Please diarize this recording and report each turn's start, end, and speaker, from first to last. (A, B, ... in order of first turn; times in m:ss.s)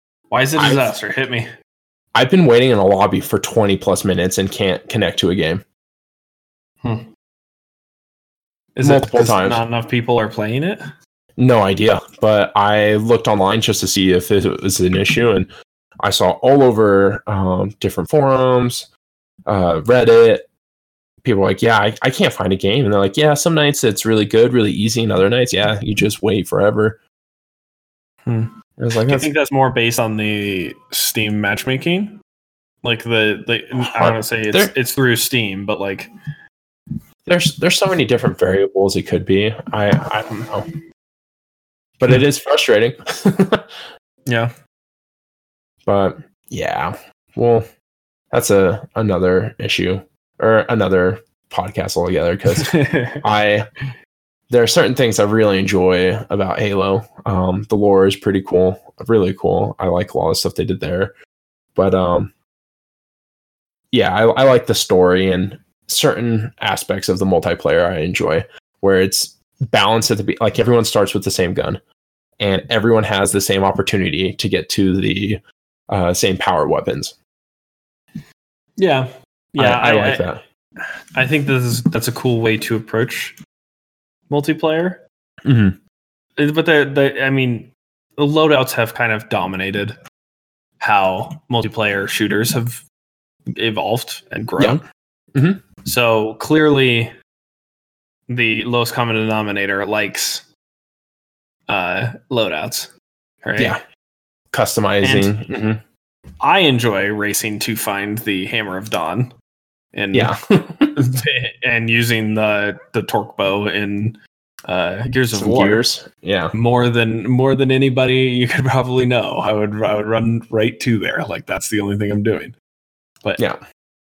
0:00.3-0:01.5 A
0:00.6-0:00.9 B
0:02.1-0:05.6 B
0:08.7-0:10.8 A
0:08.8-0:09.6 B
0:11.4-0:15.5 B
0:16.0-0:18.9 B
0:19.4-0:20.5 B
0:21.2-0:27.0 B
0:28.2-0:32.2 A
0:28.8-0:29.3 B
0:32.8-0:36.1 A
0:33.9-0:34.7 B
0:37.2-0:40.6 B
0:42.0-0:43.7 B
0:44.2-0:44.5 A
0:45.8-0:47.7 B
0:48.3-0:53.7 B
0:52.6-0:53.2 A
0:54.5-1:01.1 B
1:01.7-1:02.3 B
1:03.9-1:11.8 B
1:12.4-1:17.1 B
1:18.8-1:20.3 A
1:19.6-1:20.4 B
1:21.1-1:23.4 A
1:24.3-1:25.0 A
1:25.4-1:25.8 B
1:26.4-1:30.0 A
1:30.8-1:32.8 A
1:33.5-1:34.8 A
1:35.3-1:35.6 B
1:35.8-1:37.1 A
1:38.3-1:40.5 A
1:41.7-1:42.9 A
1:43.4-1:43.8 A
1:43.6-1:43.8 B
1:44.5-1:45.8 B
1:45.0-1:45.3 A
1:46.4-1:49.3 A
1:49.9-1:50.3 A
1:50.1-1:51.0 B
1:50.9-1:55.8 A
1:55.3-1:56.5 B
1:56.5-2:02.5 A